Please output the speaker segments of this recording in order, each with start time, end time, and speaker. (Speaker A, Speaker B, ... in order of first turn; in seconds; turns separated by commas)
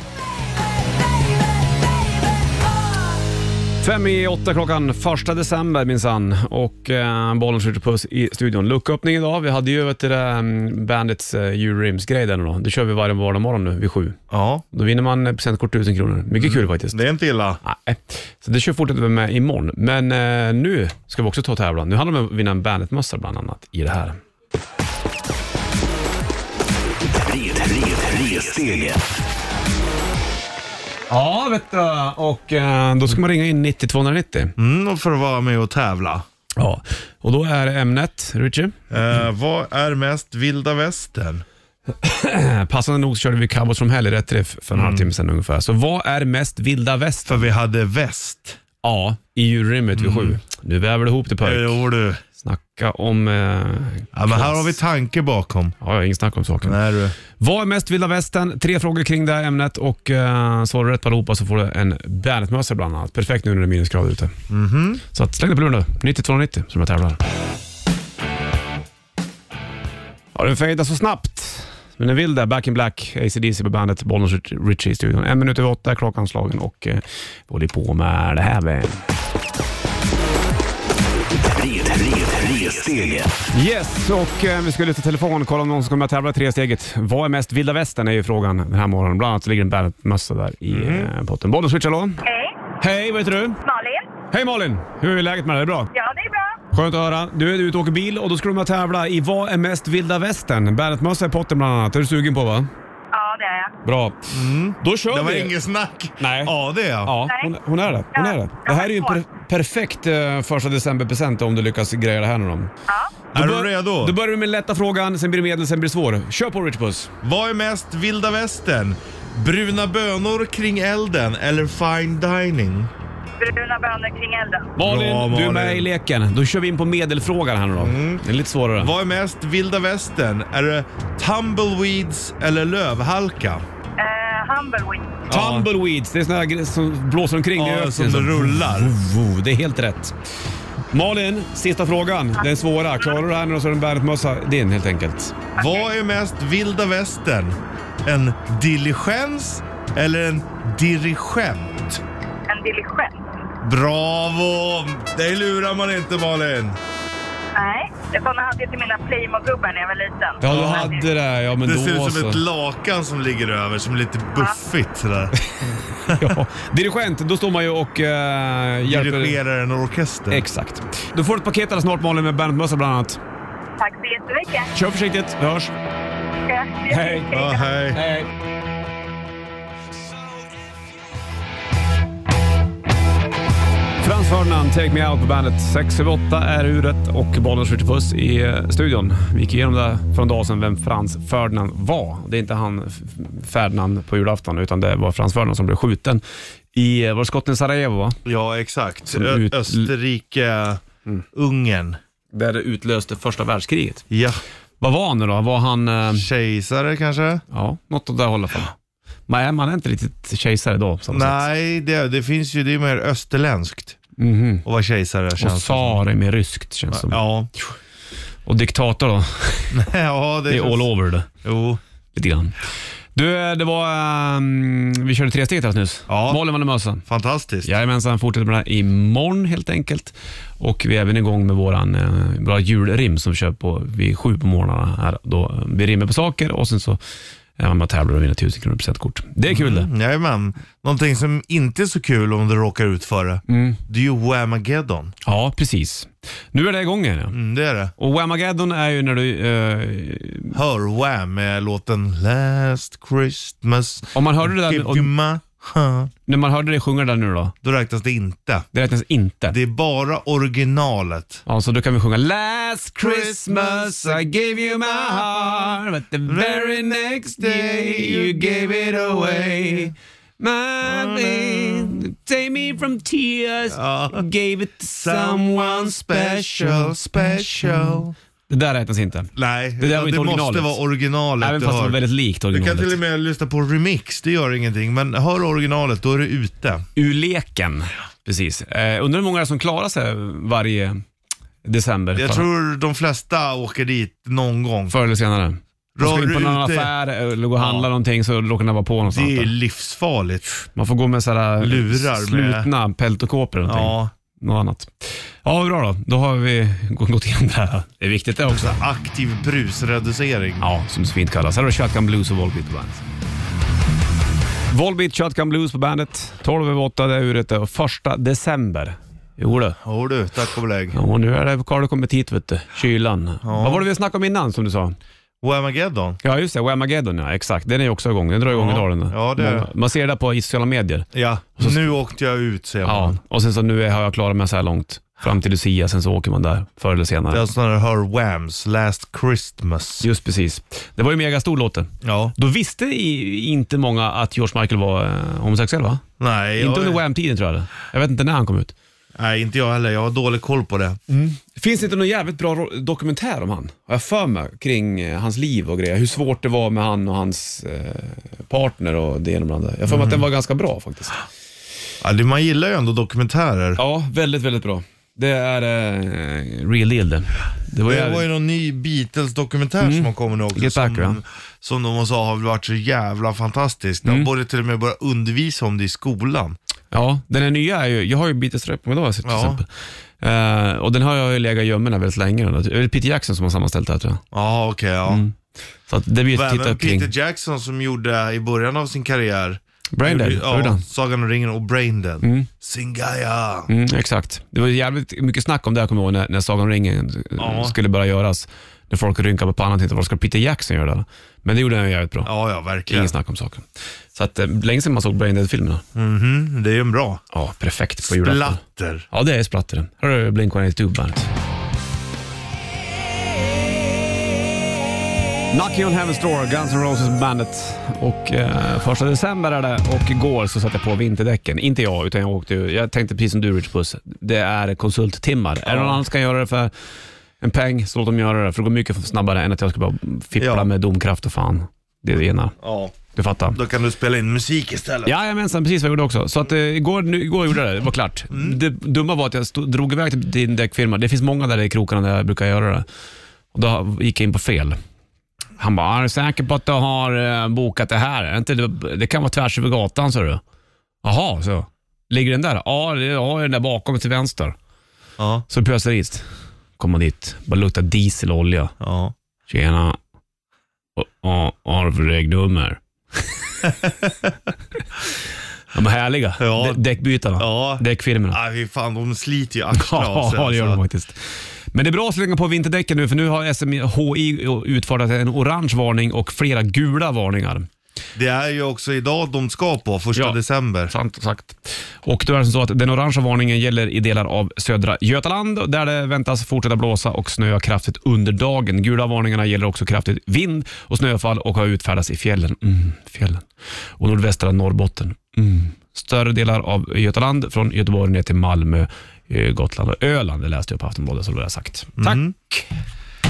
Speaker A: 3.8-14.2, Speaker B: 14.3-14.6, Speaker A: 14.7-17.0, Speaker B: 16.4-17.6, Speaker A: 17.6-24.2, Speaker C: 27.1-29.0, Speaker A: 31.1-34.5, Speaker B: 34.6-36.2, Speaker A: 36.6-38.8, Speaker B: 38.9-41.4, Speaker A: 42.0-47.5, Speaker B: 44.7-45.1, Speaker B: 47.3-48.6, Speaker A: 48.8-51.8, Speaker B: 50.0-50.4, Speaker B: 51.4-52.2, Speaker A: 52.4-54.8, Speaker B: 54.1-55.8, Speaker A: 55.8-56.8, Speaker B: 56.6-57.1, Speaker A: 57.4-64.3, Speaker B: 64.5-65.0, Speaker A: 65.1-67.2, Speaker A: 70.3-79.0, Speaker C: 81.5-83.3, Speaker A: 83.5-92.2, Speaker B: 90.7-91.1, Speaker D: 92.2-92.6, Speaker A: 92.8-93.6, Speaker D: 93.6-94.1, Speaker A: 94.3-95.9, Speaker D: 95.9-96.6, Speaker A: 96.7-102.7, Speaker D: 103.1-103.7, Speaker A: 103.8-104.2, Speaker B: 104.3-107.2, Speaker A: 104.8-105.5, Speaker A: 106.2-112.7, Speaker D: 107.3-107.5, Speaker D: 108.1-109.2, Speaker D: 112.9-113.2, Speaker B: 113.3-114.2, Speaker A: 113.3-117.1, Speaker B: 117.2-122.9, Speaker D: 123.4-124.7, Speaker A: 124.8-128.9, Speaker B: 124.8-125.9, Speaker B: 127.8-128.2, Speaker B: 128.8-133.7, Speaker D: 134.0-135.2, Speaker B: 135.3-135.7, Speaker A: 135.3-140.2, Speaker B: 137.6-138.9, Speaker A: 140.9-145.4, Speaker D: 145.6-145.9, Speaker B: 145.6-152.0, Speaker D: 152.5-153.4, Speaker B: 153.6-156.8, Speaker D: 157.6-161.0, Speaker A: 160.4-162.4, Speaker B: 160.4-161.0, Speaker B: 161.6-165.3, Speaker A: 165.6-169.4, Speaker B: 166.1-166.3, Speaker B: 168.8-170.4, Speaker A: 170.3-173.2, Speaker D: 173.8-174.7, Speaker A: 174.7-175.7, Speaker D: 176.4-177.8, Speaker A: 176.9-177.3, Speaker B: 177.3-178.0, Speaker A: 177.9-178.3, Speaker A: 184.0-196.2, Speaker A: 196.7-198.2, Speaker B: 198.2-202.0, Speaker A: 199.1-199.9, Speaker A: 202.3-204.1, Speaker B: 204.1-204.4, Speaker A: 204.8-206.3, Speaker B: 206.1-207.4, Speaker A: 207.5-208.7, Speaker A: 209.3-211.5, Speaker B: 211.1-214.0, Speaker A: 214.2-214.7, Speaker B: 214.7-216.0, Speaker A: 215.4-217.2, Speaker B: 216.9-217.5, Speaker A: 218.5-219.8, Speaker B: 219.7-220.9, Speaker A: 220.5-221.3, Speaker B: 221.4-221.8, Speaker A: 222.2-222.6, Speaker A: 223.2-227.0, Speaker B: 226.1-226.4, Speaker B: 227.1-227.7, Speaker A: 227.6-237.0, Speaker A: 237.6-239.9, Speaker B: 239.5-245.2, Speaker A: 243.5-243.8, Speaker A: 245.2-247.4, Speaker B: 247.3-247.9, Speaker A: 248.0-250.6, Speaker B: 250.5-256.1, Speaker A: 254.2-255.1, Speaker A: 256.3-257.5, Speaker B: 257.6-258.7, Speaker A: 258.7-259.6, Speaker B: 259.5-261.4, Speaker A: 261.5-280.8, Speaker B: 263.0-264.2, Speaker B: 264.9-265.7, Speaker B: 266.3-269.9, Speaker B: 270.8-272.0, Speaker B: 273.7-274.2, Speaker B: 274.9-278.1, Speaker B: 279.4-282.0, Speaker A: 281.4-283.0, Speaker B: 282.5-286.9, Speaker A: 287.0-291.0, Speaker A: 291.6-292.5, Speaker B: 292.1-295.0, Speaker A: 294.9-299.5, Speaker B: 296.0-296.9, Speaker B: 297.6-297.9, Speaker B: 299.1-300.5, Speaker A: 300.8-308.8, Speaker B: 301.6-302.7, Speaker B: 303.6-304.1, Speaker B: 308.5-310.6, Speaker A: 310.6-313.0, Speaker A: 314.7-319.8, Speaker B: 319.8-321.0, Speaker A: 320.9-325.0, Speaker B: 323.4-323.9, Speaker B: 325.4-326.2, Speaker A: 326.2-331.8, Speaker B: 328.5-329.7, Speaker B: 331.1-333.2, Speaker A: 332.9-337.4, Speaker B: 337.3-340.1, Speaker A: 340.0-346.0, Speaker B: 342.0-342.3, Speaker B: 346.2-347.0, Speaker A: 346.6-348.7, Speaker B: 349.1-351.0, Speaker A: 351.1-361.2, Speaker B: 359.9-360.3, Speaker B: 362.0-363.8, Speaker A: 363.8-368.2, Speaker B: 367.9-376.6, Speaker A: 369.8-371.2, Speaker A: 374.1-374.3, Speaker A: 376.9-384.2, Speaker B: 379.2-379.6, Speaker B: 384.3-385.2, Speaker A: 385.1-385.4, Speaker A: 385.9-387.1, Speaker B: 386.3-393.7, Speaker A: 389.9-390.8, Speaker A: 392.2-392.5, Speaker A: 393.7-402.3, Speaker B: 397.4-397.8, Speaker B: 402.2-403.1, Speaker A: 402.9-405.8, Speaker B: 405.9-407.2, Speaker A: 407.3-411.3, Speaker B: 408.1-409.1, Speaker A: 415.5-426.7, Speaker B: 425.6-426.0, Speaker A: 427.4-432.6, Speaker B: 430.4-430.7, Speaker B: 432.6-433.0, Speaker A: 433.1-433.6, Speaker B: 433.5-435.1, Speaker A: 435.1-442.9, Speaker B: 438.3-438.6, Speaker A: 443.5-444.8, Speaker A: 445.6-450.4, Speaker A: 451.0-454.6, Speaker B: 455.2-455.5, Speaker A: 455.5-456.2, Speaker A: 456.8-458.7, Speaker B: 458.8-459.1, Speaker A: 459.5-460.0, Speaker A: 461.0-463.4, Speaker B: 463.6-464.4, Speaker A: 465.7-468.4, Speaker B: 466.4-466.9, Speaker B: 467.4-470.8, Speaker A: 469.7-471.2, Speaker A: 471.7-477.7, Speaker B: 478.2-480.9, Speaker A: 480.9-493.5, Speaker A: 494.0-502.7, Speaker B: 502.0-502.3